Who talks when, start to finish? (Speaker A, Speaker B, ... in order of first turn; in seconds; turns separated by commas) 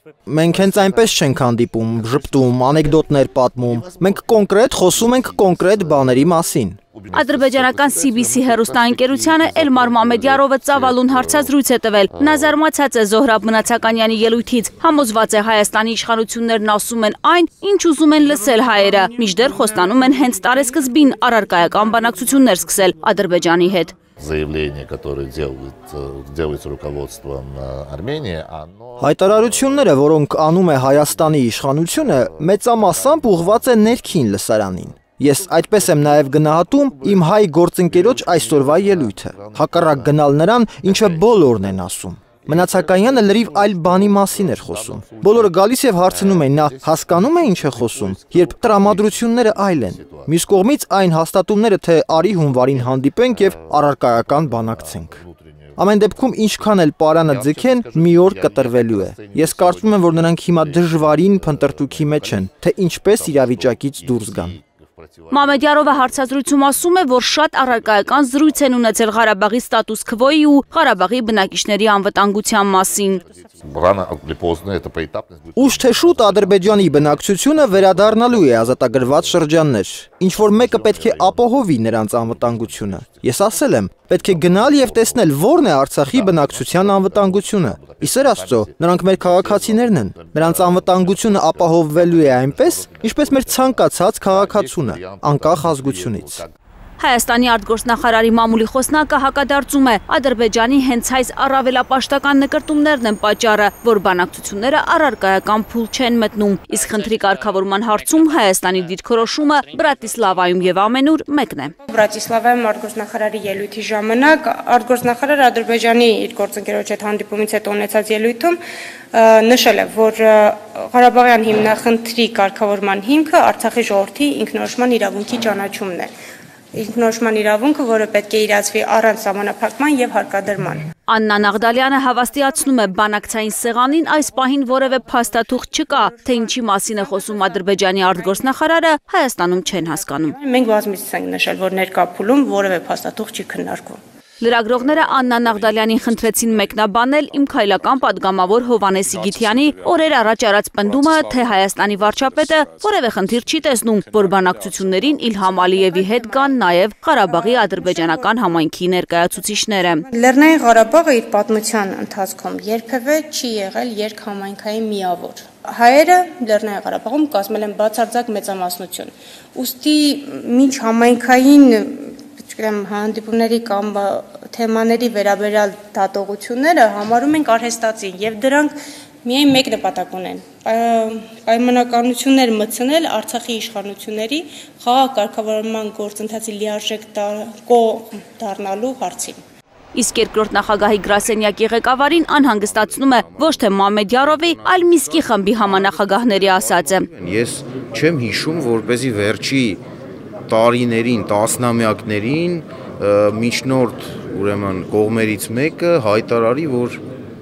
Speaker A: 0.2-6.8, Speaker B: 0.5-3.0, Speaker B: 3.6-6.4, Speaker B: 6.9-11.5, Speaker C: 7.1-24.0, Speaker B: 12.1-12.5, Speaker B: 24.2-30.0, Speaker A: 29.0-55.2, Speaker B: 30.7-34.2, Speaker B: 35.4-40.2, Speaker B: 40.8-41.8, Speaker B: 42.4-50.6, Speaker B: 52.1-66.4, Speaker A: 55.8-64.6, Speaker C: 65.3-73.2, Speaker B: 67.7-68.4, Speaker B: 73.1-79.5, Speaker A: 75.5-96.4, Speaker B: 80.3-96.5, Speaker C: 97.0-111.7, Speaker D: 111.8-118.6, Speaker D: 119.1-126.1, Speaker D: 126.7-130.8, Speaker C: 131.1-140.3, Speaker D: 140.3-144.0, Speaker C: 144.4-160.1, Speaker D: 155.5-156.6, Speaker D: 157.2-158.3, Speaker D: 160.1-178.7, Speaker D: 179.2-189.4, Speaker C: 189.9-197.1, Speaker E: 197.1-199.8, Speaker E: 200.5-207.0